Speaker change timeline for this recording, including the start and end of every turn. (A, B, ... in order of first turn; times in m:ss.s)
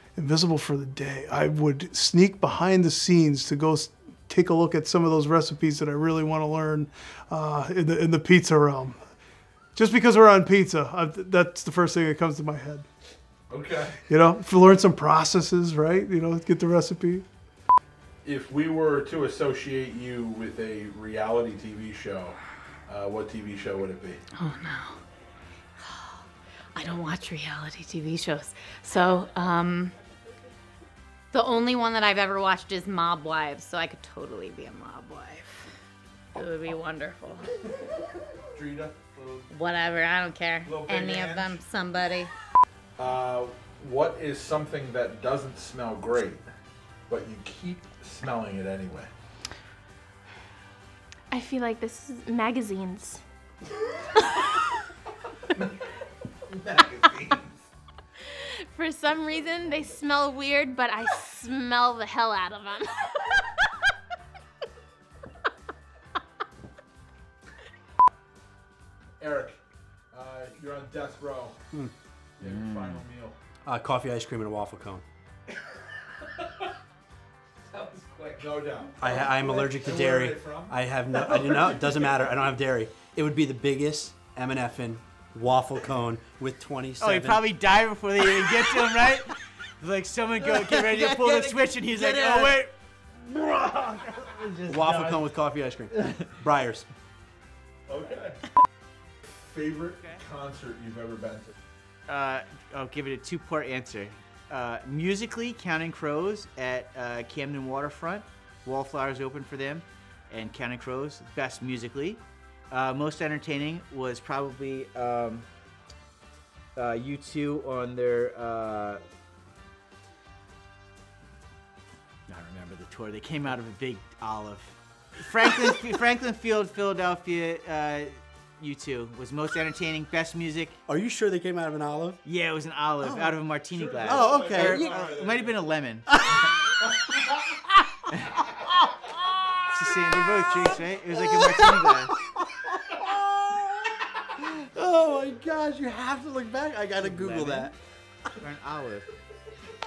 0:00.2-0:09.0 A
0:09.8-0:12.8 A
0:13.5-0:14.0 B
0:14.1-0:17.2 A
0:18.2-0:24.2 B
0:24.4-0:25.0 C
0:25.8-0:26.2 C
0:26.8-0:29.9 C
0:31.3-0:35.7 C
0:36.4-0:37.5 C
0:38.5-0:39.5 B
0:39.5-0:42.3 C
0:40.6-0:41.6 B
0:43.0-0:46.4 B
0:47.1-0:49.1 B
0:51.3-0:53.2 D
0:54.2-0:54.6 D
0:56.5-0:57.6 B
0:58.3-1:03.5 D
1:09.2-1:09.6 B
1:10.1-1:11.6 B
1:12.4-1:13.4 B
1:12.4-1:13.0 E
1:13.7-1:15.0 F
1:18.2-1:21.9 B
1:19.0-1:27.4 F
1:27.0-1:32.6 E
1:31.0-1:32.6 F
1:33.4-1:36.9 F
1:34.7-1:35.2 E
1:37.9-1:38.4 B
1:39.4-1:41.5 B
1:42.1-1:55.5 E
1:56.8-1:59.0 E
2:02.3-2:10.8 E
2:10.9-2:12.2 F
2:12.2-2:16.1 E
2:13.7-2:15.5 B
2:14.0-2:15.0 F
2:18.1-2:18.5 E
2:19.7-2:22.1 E
2:23.2-2:23.6 F
2:24.6-2:27.7 F
2:27.0-2:27.7 E
2:28.4-2:29.1 E